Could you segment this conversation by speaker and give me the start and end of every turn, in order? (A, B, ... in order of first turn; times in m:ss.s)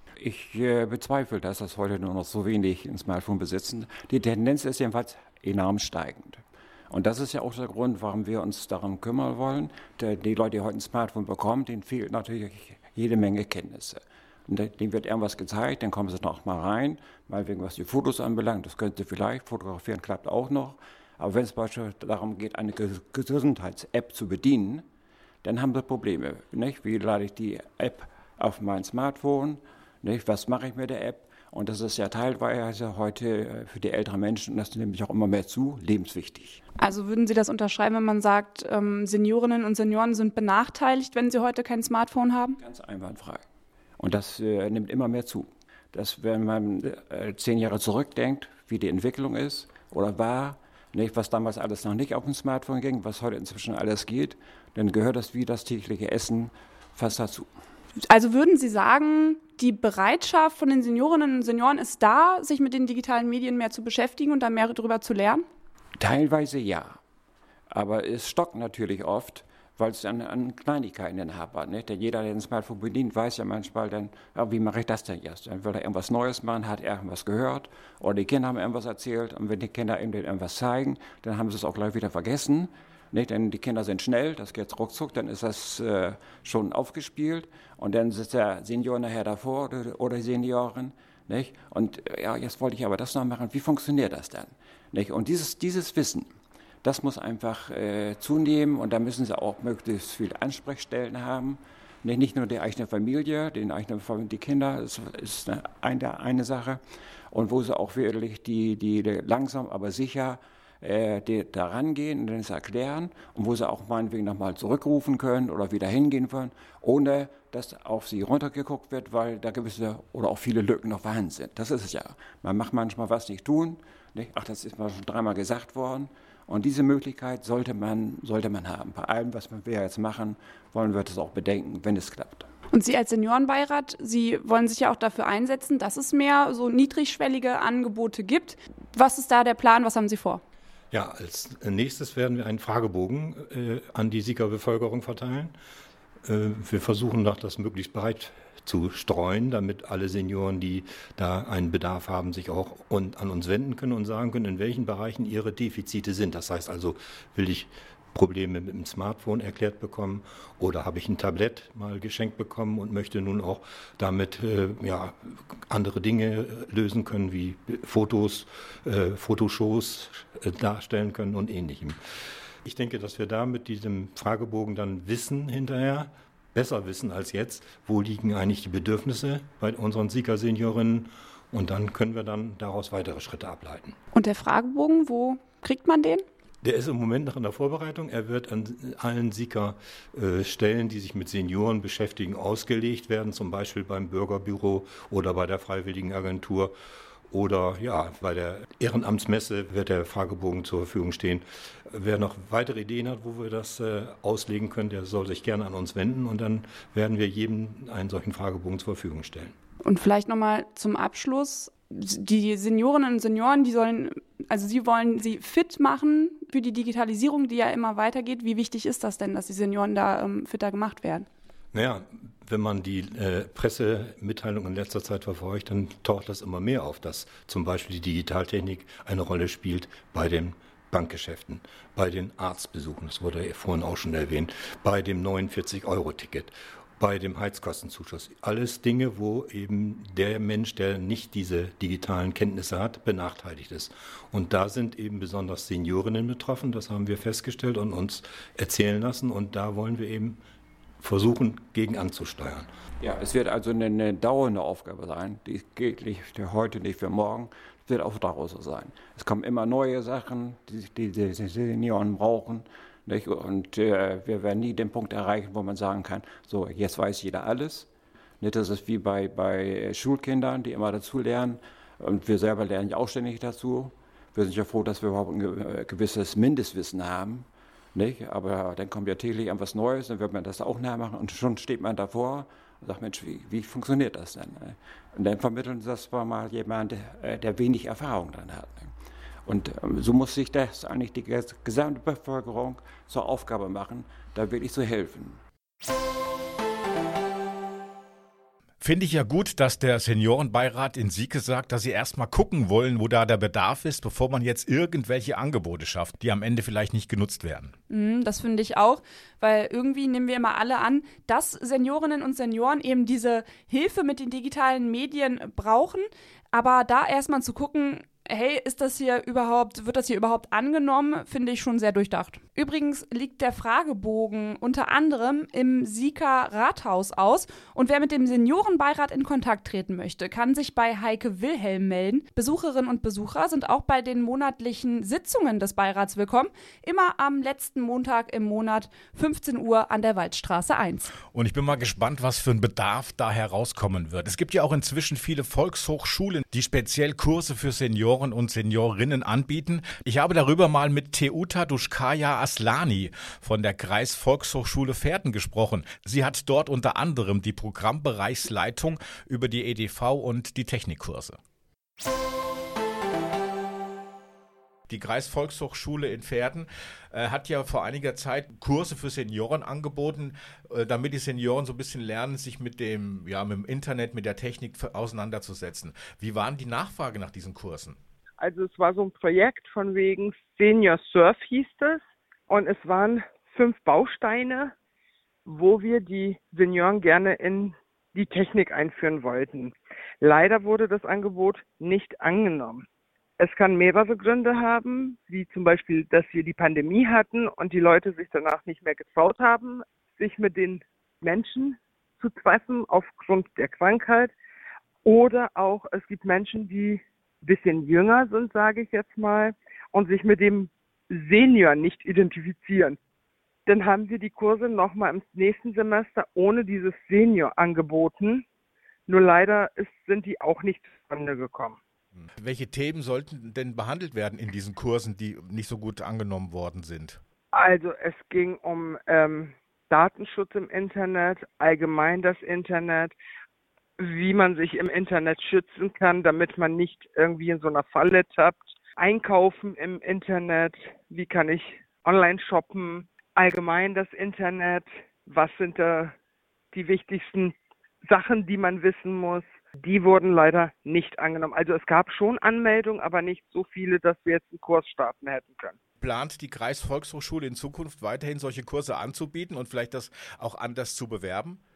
0:00.2-0:24.8 A
0:25.4-0:36.6 A
0:36.8-0:42.6 B
0:42.6-0:43.4 A
0:44.0-0:57.5 A
0:58.0-1:05.4 B
1:06.0-1:07.0 A
1:07.7-1:36.3 A
1:36.8-1:46.8 A
1:47.3-2:12.4 A
2:12.7-2:20.4 B
2:20.9-2:25.5 C
2:26.2-2:52.0 C
2:52.6-3:04.0 C
3:04.1-3:06.2 B
3:06.6-3:16.7 C
3:17.3-3:29.5 C
3:29.8-3:41.3 B
3:41.7-4:10.4 C
4:11.0-4:12.7 C
4:13.0-4:27.9 A
4:28.4-4:48.9 A
4:49.4-4:55.4 A
4:58.8-5:07.7 D
5:07.9-5:41.1 B
5:41.3-6:01.4 D
6:04.9-6:18.0 D
6:18.4-6:24.7 E
6:25.4-6:32.8 E
6:33.4-6:44.3 E
6:45.0-6:53.0 E
6:53.6-6:58.4 E
6:59.1-7:01.8 E
7:02.4-7:07.2 D
7:07.5-7:13.2 E
7:14.0-7:26.1 E
7:26.7-7:35.8 E
7:36.0-7:41.6 D